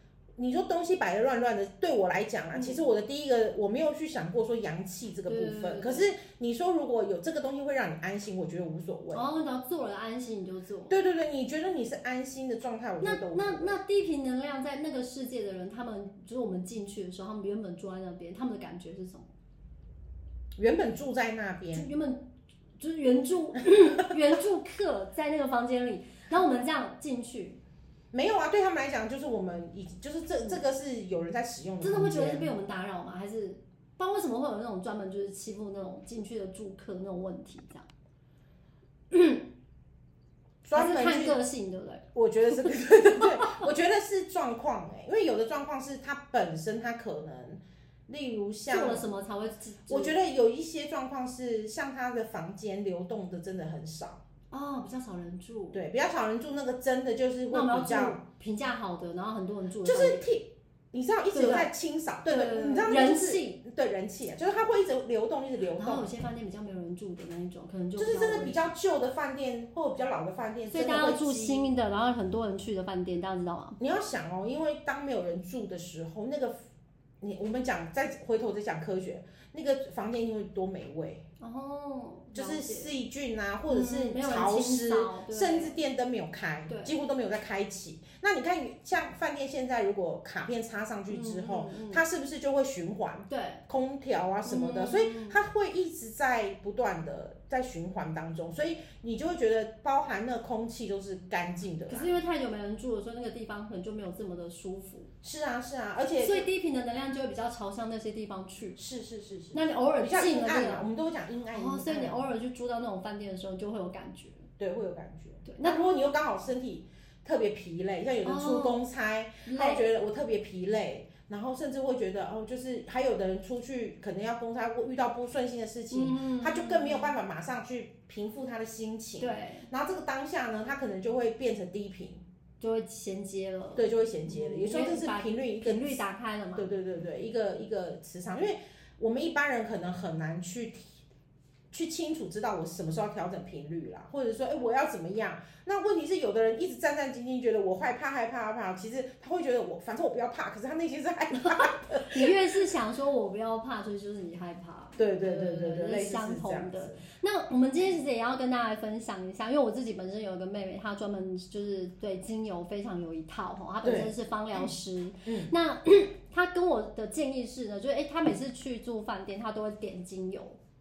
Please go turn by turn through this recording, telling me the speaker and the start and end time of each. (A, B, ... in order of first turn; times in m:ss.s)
0:00.4-0:09.2 A
0:02.5-0:02.8 B
0:05.3-0:06.1 B
0:09.1-0:10.9 B
0:10.9-0:13.8 A
0:13.0-0:19.3 B
0:20.6-0:21.9 A
0:21.7-0:22.2 B
0:22.8-0:27.6 B
0:28.1-0:32.5 A
0:31.8-0:37.9 B
0:39.1-0:39.5 B
0:40.6-0:41.4 A
0:40.7-0:43.6 B
0:42.1-0:49.0 A
0:48.7-0:50.1 B
0:49.9-0:54.2 A
0:54.5-0:55.8 B
0:55.7-0:58.2 A
0:57.5-1:00.2 B
0:59.8-1:06.1 A
1:01.3-1:01.7 B
1:02.2-1:03.6 B
1:05.8-1:08.7 B
1:08.0-1:11.7 A
1:10.7-1:13.8 B
1:13.8-1:16.6 A
1:17.2-1:21.2 A
1:21.4-1:22.9 B
1:22.3-1:42.1 A
1:23.7-1:25.8 B
1:26.7-1:26.9 B
1:31.1-1:32.0 B
1:33.3-1:33.6 B
1:34.4-1:35.4 B
1:41.9-1:45.1 B
1:45.2-1:46.4 A
1:46.2-1:48.8 B
1:48.8-1:52.2 A
1:49.5-1:50.8 B
1:51.5-1:54.4 B
1:54.6-2:12.2 A
1:55.4-1:55.8 B
1:58.2-1:58.8 B
1:59.4-1:59.8 B
2:05.9-2:07.1 B
2:09.2-2:09.7 B
2:12.6-2:16.7 B
2:13.8-2:16.0 A
2:16.5-2:21.0 A
2:21.7-2:32.3 A
2:31.4-2:50.6 B
2:35.0-2:37.0 A
2:43.8-2:44.7 A
2:45.2-2:45.5 A